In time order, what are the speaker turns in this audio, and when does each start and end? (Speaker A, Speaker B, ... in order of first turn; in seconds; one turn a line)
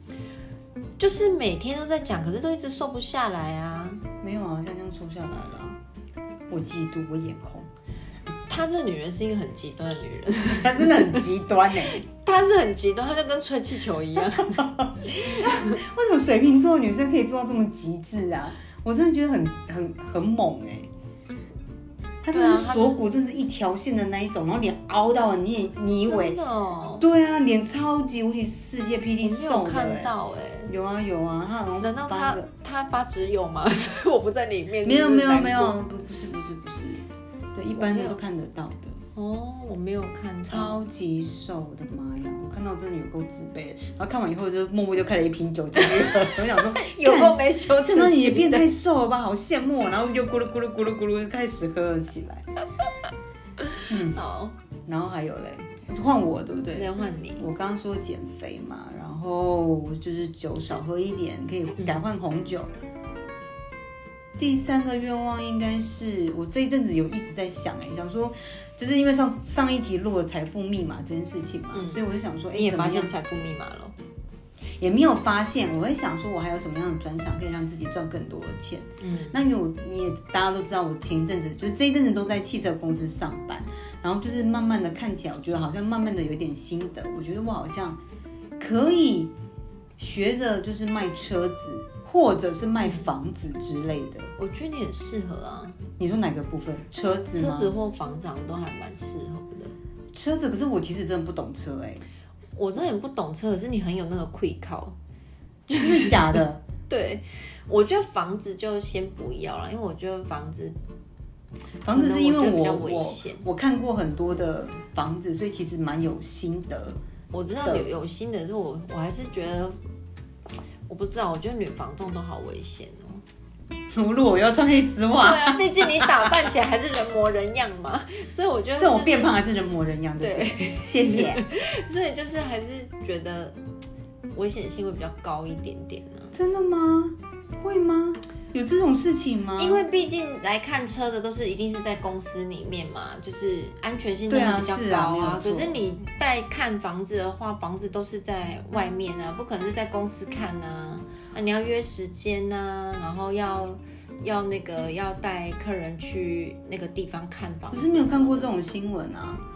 Speaker A: 1.0-4.0
Speaker B: 4.2-5.8
Speaker B: 6.5-7.7
Speaker A: 8.5-11.2
Speaker B: 10.5-12.0
Speaker A: 11.8-15.8
Speaker B: 14.4-20.9
Speaker B: 22.2-26.4
Speaker A: 22.3-23.1
Speaker A: 26.0-27.0
Speaker B: 27.0-30.1
Speaker A: 29.2-30.7
Speaker B: 30.7-32.5
Speaker A: 31.8-35.8
Speaker B: 34.8-39.0
Speaker A: 37.7-38.2
Speaker A: 39.1-40.8
Speaker B: 40.5-52.5
Speaker A: 45.8-48.7
Speaker A: 53.7-54.5
Speaker B: 53.9-54.2
Speaker B: 54.9-62.7
Speaker A: 56.7-57.4
Speaker B: 64.4-73.1
Speaker A: 71.7-72.0
Speaker A: 72.5-73.9
Speaker B: 74.8-88.0
Speaker A: 79.0-79.4
Speaker B: 88.6-89.3
Speaker B: 90.0-94.3
Speaker A: 94.4-95.8
Speaker B: 96.0-97.7
Speaker A: 97.3-99.7
Speaker B: 100.1-102.0
Speaker A: 102.5-105.0
Speaker B: 105.7-106.6
Speaker A: 105.7-110.8
Speaker B: 111.8-117.0
Speaker A: 111.9-113.4
Speaker A: 117.3-119.8
Speaker A: 120.9-123.2
Speaker B: 123.9-126.5
Speaker A: 125.2-129.3
Speaker B: 128.8-131.4
Speaker A: 130.2-133.6
Speaker A: 134.3-136.3
Speaker B: 136.3-139.8
Speaker A: 139.6-158.5
Speaker B: 144.3-145.7
Speaker B: 157.7-159.4